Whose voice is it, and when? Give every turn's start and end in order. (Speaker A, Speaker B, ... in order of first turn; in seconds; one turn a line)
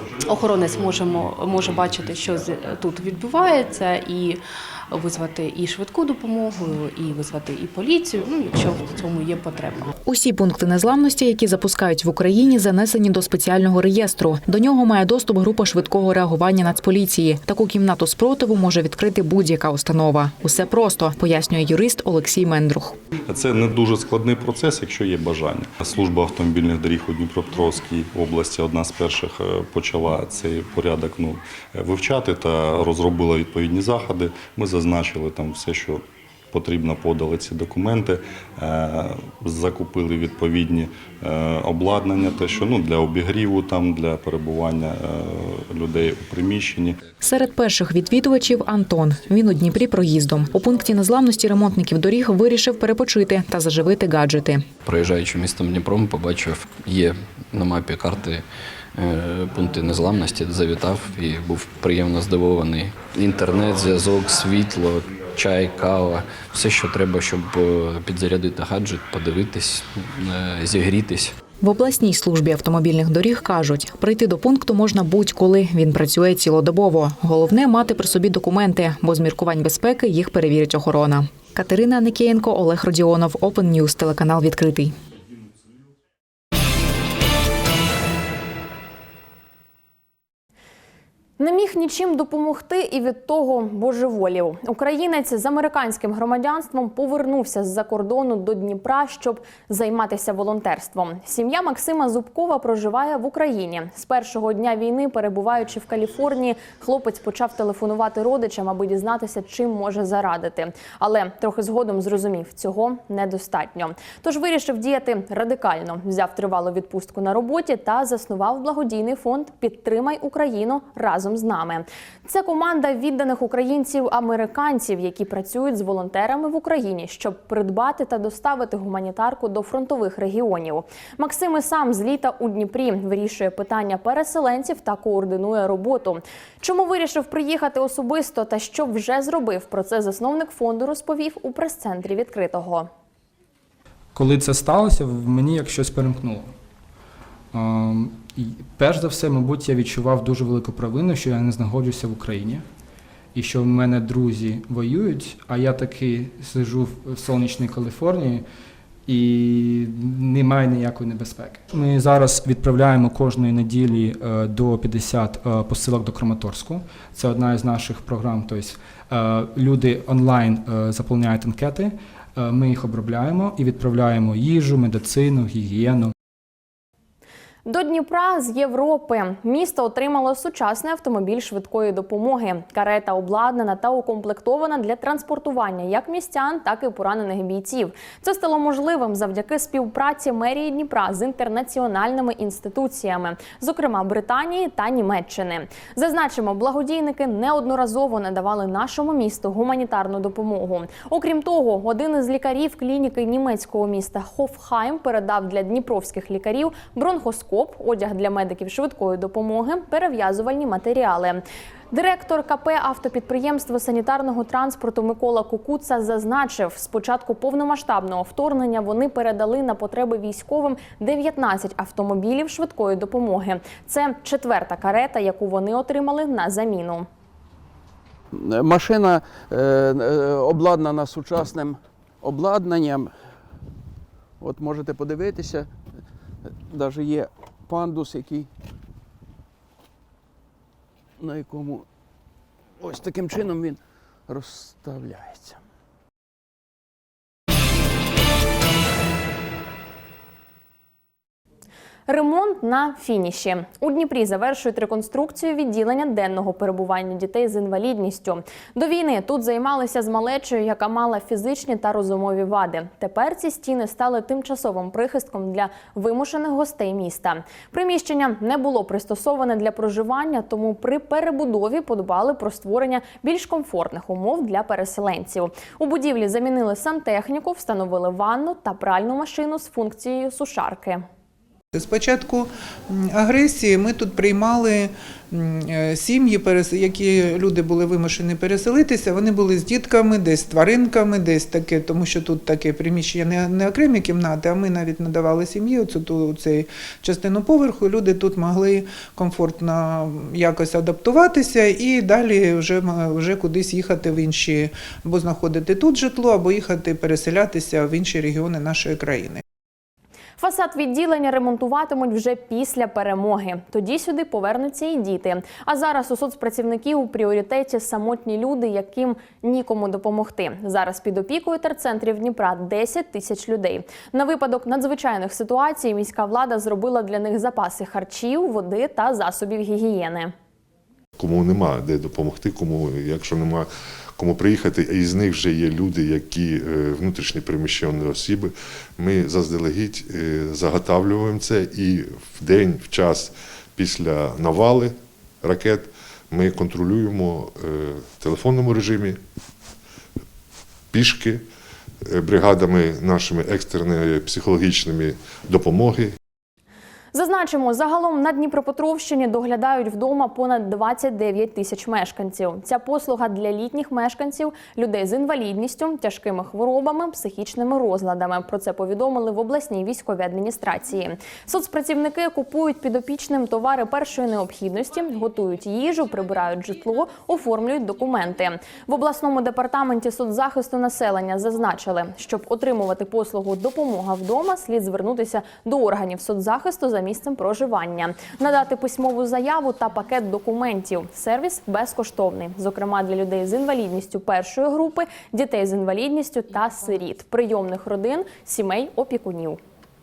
Speaker A: 0.2-9.9
Speaker B: 10.0-23.0
Speaker C: 23.3-47.0
Speaker B: 47.2-54.7
Speaker D: 54.8-71.3
Speaker B: 71.6-84.9
Speaker E: 91.4-142.9
Speaker F: 144.1-146.5
Speaker F: 147.5-152.7
Speaker F: 153.3-158.4
Speaker F: 159.1-176.1
Speaker E: 177.7-227.1
Speaker G: 228.3-233.3
Speaker G: 234.4-235.8
Speaker G: 236.5-238.5
Speaker G: 241.2-241.8
Speaker G: 242.8-245.6
Speaker E: 252.1-281.0
Speaker H: 281.7-309.4
Speaker E: 310.4-330.3
Speaker I: 331.2-333.7
Speaker I: 334.2-344.9
Speaker I: 345.4-349.2
Speaker I: 350.9-351.4
Speaker I: 352.1-356.1
Speaker E: 357.1-399.6